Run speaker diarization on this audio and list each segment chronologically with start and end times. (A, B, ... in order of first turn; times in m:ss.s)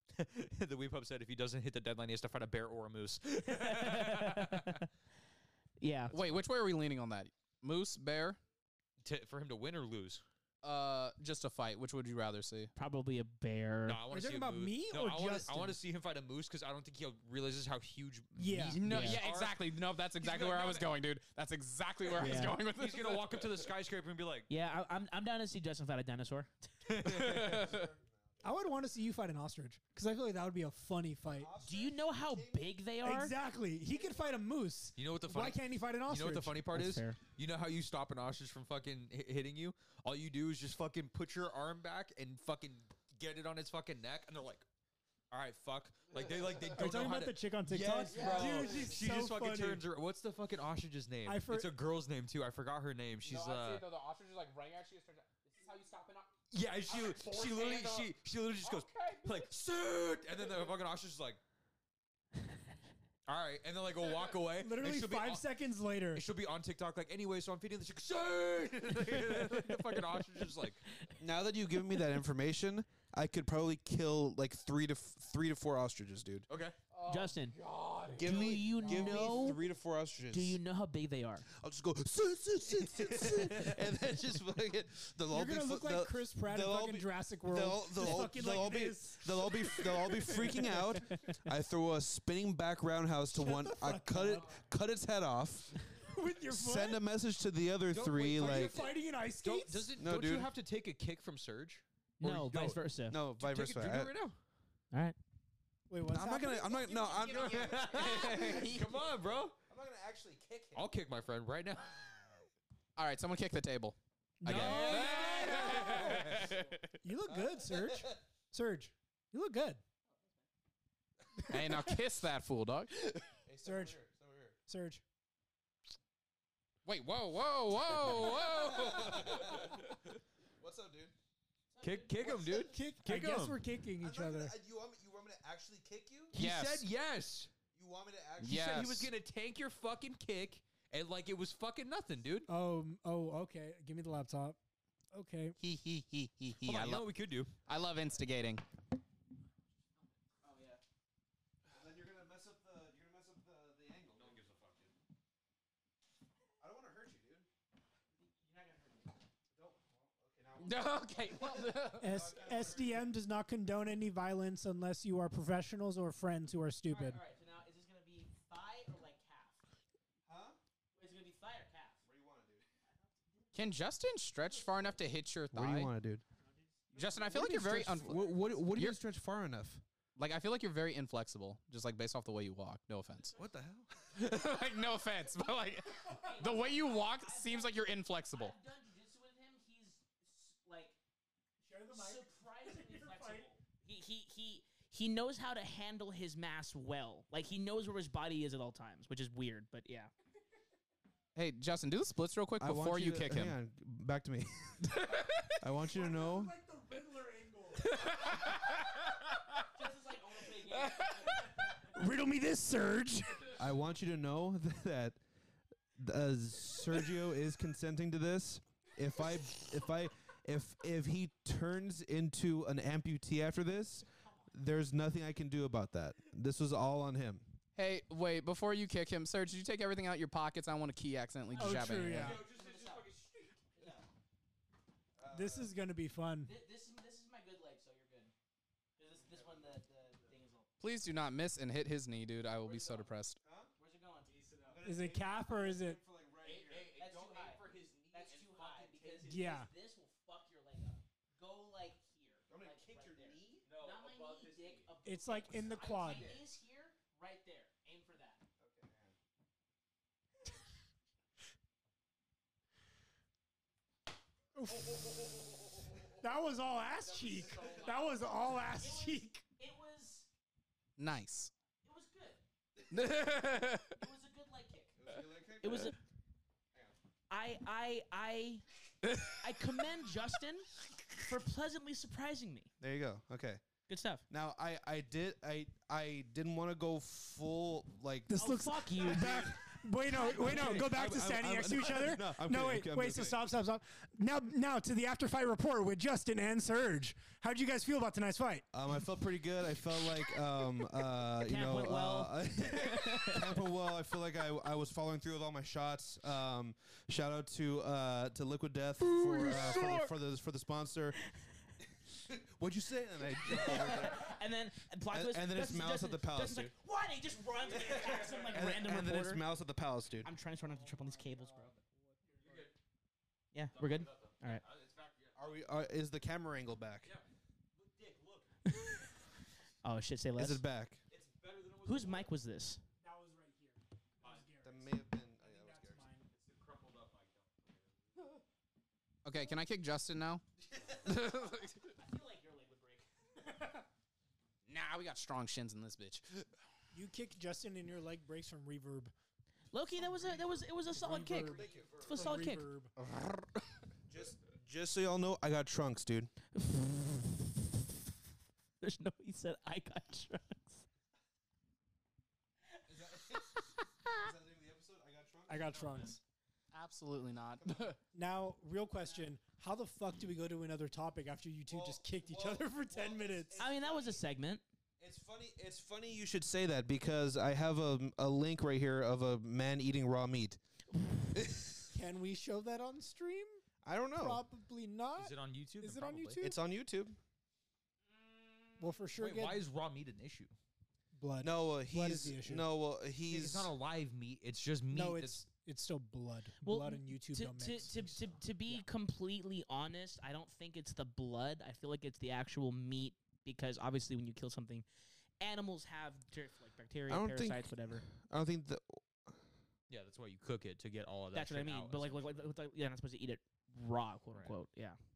0:00.2-0:04.8 A
0:03.4-0:04.9 B
0:05.8-0:06.1 B
0:06.1-0:08.4 C
0:06.1-0:06.4 A
0:09.0-0:10.2 A
0:10.6-0:12.7 C
0:12.8-0:14.0 B
0:13.8-0:20.9 A
0:14.1-0:15.8 D
0:18.4-0:18.8 D
0:18.7-0:23.6 C
0:18.8-0:19.2 B
0:22.1-0:24.5 A
0:22.2-0:22.6 B
0:24.5-0:26.5 B
0:26.8-0:27.7 A
0:27.0-0:27.8 C
0:27.4-0:28.6 E
0:28.4-0:31.5 D
0:31.2-0:32.8 E
0:31.6-0:33.3 B
0:33.0-0:36.6 D
0:35.0-0:44.6 A
0:36.7-0:37.2 B
0:45.3-0:53.9 A
0:46.7-0:49.8 D
0:48.1-0:48.9 C
0:51.2-0:51.7 D
0:53.2-0:56.3 C
0:56.5-1:01.4 A
0:56.8-0:59.5 C
1:03.2-1:05.4 A
1:04.6-1:06.2 D
1:06.1-1:10.8 A
1:11.2-1:16.4 E
1:16.5-1:16.8 A
1:16.9-1:19.2 C
1:17.0-1:17.6 B
1:18.2-1:20.6 E
1:18.2-1:19.6 B
1:20.3-1:21.4 B
1:21.5-1:35.9 E
1:23.0-1:23.7 A
1:25.3-1:31.4 D
1:33.3-1:34.6 D
1:35.9-1:37.0 D
1:36.5-1:38.8 E
1:37.9-1:42.8 A
1:38.3-1:39.9 D
1:40.0-1:40.5 E
1:42.2-1:43.2 B
1:43.1-1:44.2 E
1:43.4-1:44.4 A
1:45.9-1:47.3 D
1:46.1-1:50.9 E
1:46.9-1:48.8 C
1:47.2-1:49.6 A
1:50.7-1:52.1 A
1:53.0-1:57.0 C
1:54.4-1:55.3 D
1:54.4-1:56.5 A
1:55.8-1:56.3 D
1:57.0-1:59.8 D
1:57.3-1:58.2 E
2:01.5-2:03.2 C
2:03.4-2:04.6 E
2:03.6-2:04.0 D
2:04.7-2:05.0 D
2:06.8-2:09.4 C
2:07.9-2:10.0 A
2:08.4-2:10.0 E
2:10.6-2:11.1 E
2:11.7-2:12.4 B
2:11.8-2:13.6 A
2:12.2-2:12.7 E
2:12.6-2:14.5 D
2:14.0-2:16.4 E
2:16.3-2:17.5 A
2:16.3-2:16.8 C
2:17.7-2:18.8 E
2:18.4-2:19.1 C
2:18.4-2:22.5 A
2:22.5-2:24.6 D
2:25.1-2:25.6 D
2:25.6-2:27.1 C
2:26.6-2:27.5 A
2:27.6-2:28.6 C
2:30.4-2:30.8 B
2:31.7-2:34.4 E
2:34.2-2:34.9 A
2:36.6-2:37.5 E
2:38.2-2:39.2 B
2:39.5-2:43.1 E
2:40.6-2:42.2 C
2:42.0-2:47.2 D
2:46.8-2:49.6 B
2:50.2-2:50.6 E
2:51.0-2:52.0 B
2:52.0-2:52.6 E
2:52.9-2:53.6 B
2:53.5-2:55.9 C
2:55.5-2:56.2 E
2:56.4-2:57.3 B
2:56.9-2:59.0 C
2:57.2-2:59.8 E
3:00.2-3:03.4 C
3:03.3-3:03.9 E
3:04.1-3:08.6 C
3:06.0-3:11.0 B
3:11.6-3:13.5 D
3:11.9-3:20.1 B
3:21.3-3:23.6 C
3:22.6-3:24.9 E
3:25.5-3:26.5 E
3:25.8-3:27.9 D
3:28.0-3:28.3 C
3:29.7-3:31.9 B
3:31.8-3:33.6 D
3:33.5-3:35.2 E
3:36.0-3:47.6 E
3:47.8-3:52.4 C
3:51.5-3:53.1 B
3:51.6-3:52.4 D
3:52.1-3:53.6 A
3:53.6-3:54.0 B
3:55.2-3:55.7 E
3:55.3-3:56.5 D
3:56.4-3:58.3 B
3:59.0-4:00.7 B
3:59.2-4:00.2 E
4:00.8-4:03.4 C
4:02.6-4:03.1 A
4:03.4-4:03.7 E
4:03.8-4:04.7 B
4:04.6-4:07.0 E
4:04.8-4:06.0 D
4:06.4-4:09.2 A
4:06.9-4:18.4 B
4:09.2-4:09.7 D
4:12.5-4:13.7 E
4:13.6-4:14.9 A
4:15.0-4:16.4 D
4:15.7-4:16.3 A
4:18.6-4:19.2 E
4:24.5-4:25.0 D
4:26.2-4:29.4 D
4:27.4-4:30.3 B
4:31.0-4:31.5 C
4:31.8-4:32.4 B
4:32.9-4:34.0 C
4:33.8-4:35.0 B
4:35.0-4:35.9 E
4:35.6-4:36.0 B
4:37.3-4:38.6 B
4:39.2-4:42.7 B
4:42.8-4:43.6 E
4:43.9-4:44.2 B
4:44.3-4:48.4 E
4:48.3-4:58.6 D
4:48.4-4:51.1 B
4:49.1-4:49.6 E
4:50.2-4:53.4 E
4:58.7-5:11.2 E
5:01.4-5:03.5 B
5:09.1-5:10.1 B
5:12.2-5:14.4 E
5:13.4-5:19.4 B
5:15.1-5:16.7 E
5:17.7-5:20.3 E
5:20.2-5:21.7 B
5:22.4-5:22.7 A
5:23.5-5:24.6 B
5:23.7-5:25.6 A
5:25.4-5:27.1 E
5:27.8-5:28.5 A
5:28.7-5:29.0 B
5:29.8-5:30.6 B
5:30.4-5:31.0 E
5:31.1-5:32.3 A
5:31.8-5:32.8 B
5:33.0-5:36.3 D
5:34.6-5:36.1 E
5:36.3-5:38.4 A
5:39.2-5:40.4 C
5:41.0-5:41.9 C
5:41.9-5:43.8 B
5:44.6-5:46.5 C
5:46.9-5:49.1 D
5:49.7-5:52.7 B
5:50.2-5:52.9 D
5:51.5-5:52.3 E
5:54.1-5:56.3 E
5:56.5-5:57.7 B
5:58.8-6:00.8 B
6:02.9-6:06.0 E
6:05.5-6:06.2 D
6:06.7-6:08.0 C
6:07.6-6:07.9 E
6:08.1-6:13.6 D
6:11.7-6:14.2 E
6:13.6-6:14.6 B
6:15.0-6:20.6 E
6:21.3-6:21.8 E
6:21.9-6:23.6 D
6:23.8-6:24.4 E
6:24.2-6:26.5 D
6:25.2-6:26.4 A
6:26.4-6:27.2 E
6:28.8-6:29.6 D
6:29.1-6:30.5 A
6:31.1-6:32.6 D
6:31.4-6:33.7 E
6:33.3-6:35.4 A
6:34.9-6:38.8 D
6:36.6-6:44.8 B
6:45.4-6:48.0 B
6:47.1-6:49.4 E
6:49.9-6:52.5 A
6:51.3-6:55.0 B
6:54.3-6:54.6 A